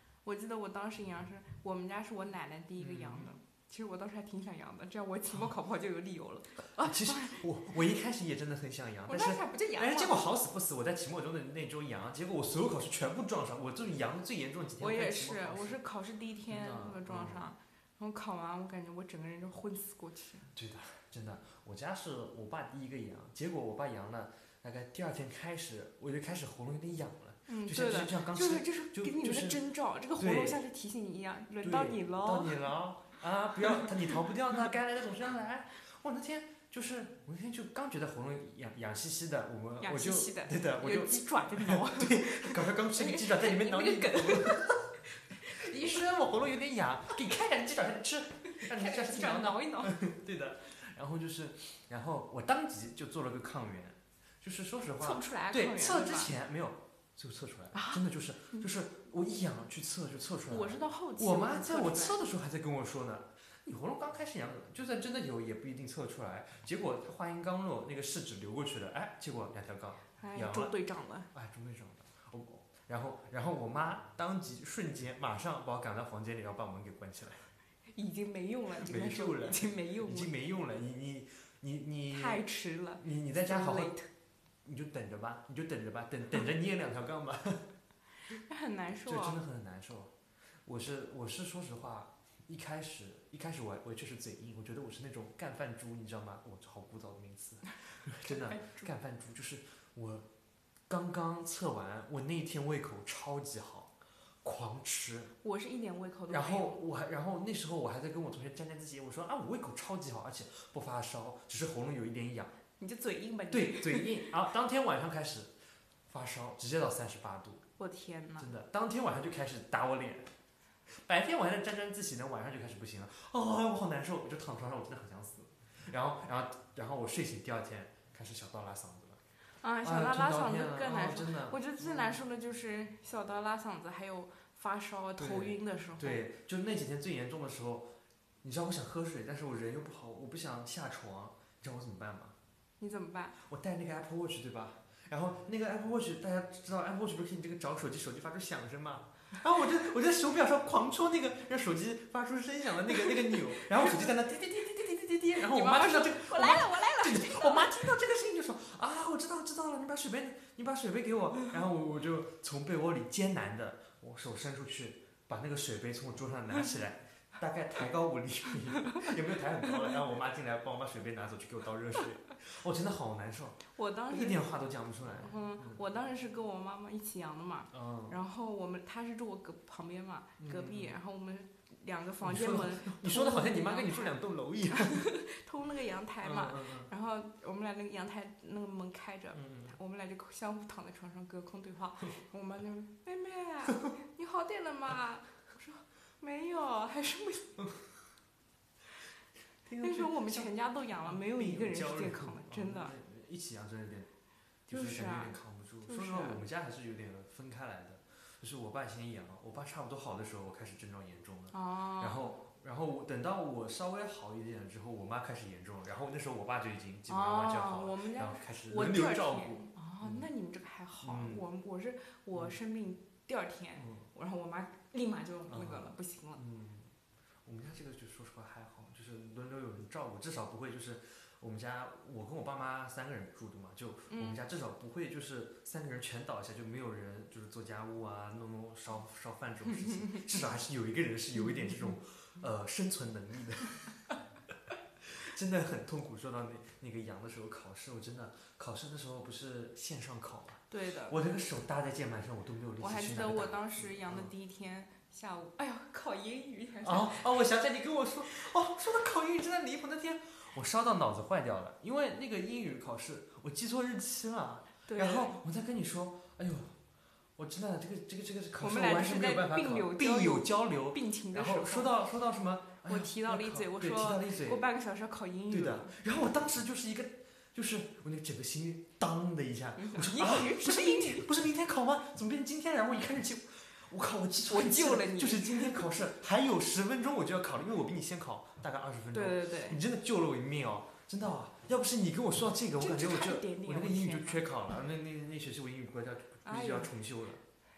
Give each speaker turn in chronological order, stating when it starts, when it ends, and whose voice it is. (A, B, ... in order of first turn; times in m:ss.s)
0:00.2-0:07.5 A
0:02.8-0:03.3 B
0:06.8-0:15.8 B
0:09.1-0:10.3 A
0:14.8-0:20.5 A
0:16.5-0:17.4 B
0:20.5-0:29.6 B
0:27.5-0:32.7 A
0:30.2-0:30.6 B
0:31.6-0:45.0 B
0:39.8-0:46.1 A
0:45.5-1:10.8 B
0:48.5-0:50.0 A
0:55.0-0:56.3 A
0:57.7-0:58.7 A
1:00.5-1:02.2 A
1:10.2-1:11.3 A
1:11.3-1:17.5 B
1:17.9-1:20.4 A
1:18.8-1:22.4 B
1:22.1-1:24.1 A
1:23.0-1:23.9 B
1:24.6-1:27.7 B
1:28.3-1:29.4 A
1:29.0-1:30.1 B
1:30.6-1:40.2 B
1:38.2-1:38.9 A
1:40.9-1:43.9 B
1:44.4-1:45.3 B
1:45.4-1:46.8 A
1:46.3-1:52.5 B
1:52.8-1:54.3 A
1:53.5-1:55.5 B
1:56.1-1:57.6 B
1:57.8-1:58.5 A
1:58.4-2:00.3 B
2:00.9-2:09.2 B
2:09.6-2:16.2 A
2:09.8-2:12.2 B
2:15.2-2:17.9 B
2:18.4-2:22.4 B
2:22.8-2:23.4 A
2:23.4-2:55.8 B
2:33.8-2:34.7 A
2:35.3-2:37.9 A
2:53.8-2:54.5 A
2:55.0-3:04.2 A
2:57.7-2:58.2 B
3:00.4-3:01.0 B
3:02.2-3:05.1 B
3:04.7-3:17.7 A
3:06.2-3:06.9 B
3:09.3-3:09.7 B
3:19.6-3:20.5 B
3:19.8-3:22.9 A
3:21.0-3:24.1 B
3:24.7-3:40.3 B
3:24.7-3:26.4 A
3:31.5-3:32.3 A
3:37.1-3:46.4 A
3:41.0-3:41.4 B
3:43.8-3:44.0 B
3:45.5-3:46.9 B
3:47.4-4:04.0 B
3:54.1-3:54.4 A
4:05.0-4:14.3 B
4:10.7-4:11.2 A
4:12.8-4:17.4 A
4:16.8-4:26.7 B
4:24.8-4:25.4 A
4:27.4-4:34.7 B
4:28.6-4:32.0 A
4:32.9-4:35.9 A
4:35.5-4:57.4 B
4:39.8-4:41.3 A
4:44.5-4:46.0 A
4:49.1-4:49.8 A
4:52.8-4:54.4 A
4:56.4-4:56.9 A